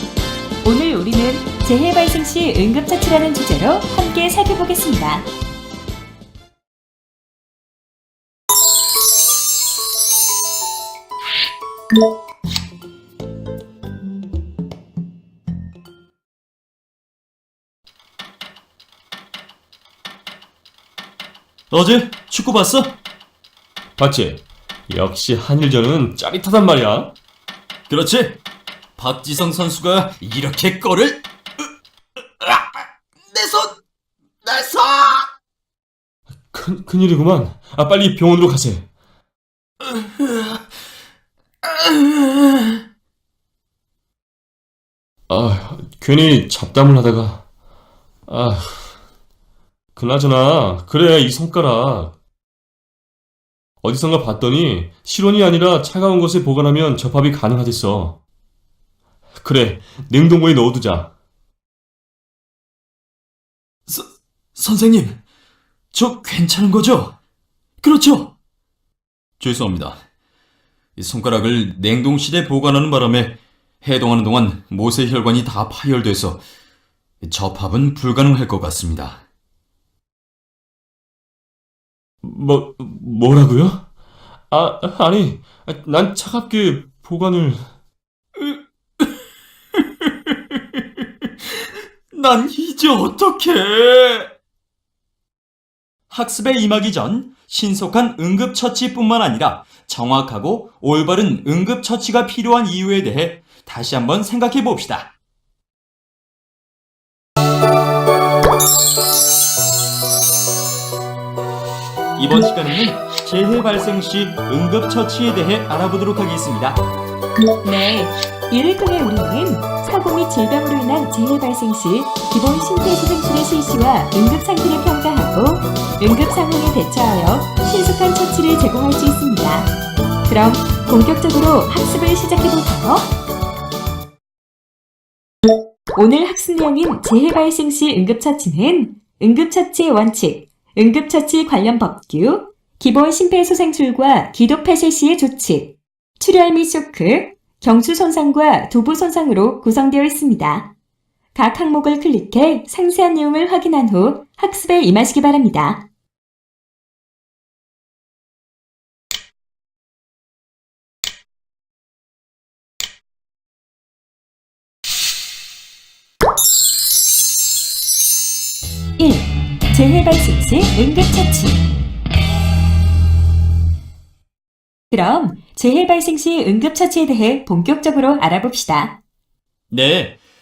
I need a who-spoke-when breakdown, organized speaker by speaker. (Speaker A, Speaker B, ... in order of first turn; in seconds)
Speaker A: 0.6-5.3, 117.6-129.7, 130.3-133.1, 135.9-145.7, 146.2-150.7, 151.3-155.8, 169.0-171.7, 174.9-178.9
Speaker B: 21.7-22.9, 27.9-28.4, 29.0-31.2, 32.4-33.7, 34.4-35.3, 63.9-65.2, 65.9-67.1, 67.8-68.3, 69.4-70.0, 71.0-76.4, 77.2-79.2, 92.1-94.3, 96.1-105.1, 112.2-116.8, 179.7-180.1
Speaker C: 24.0-27.1, 36.5-38.8, 45.3-47.4, 48.3-48.8, 50.0-52.1, 53.8-58.1, 59.4-61.1, 82.2-83.8, 84.5-87.6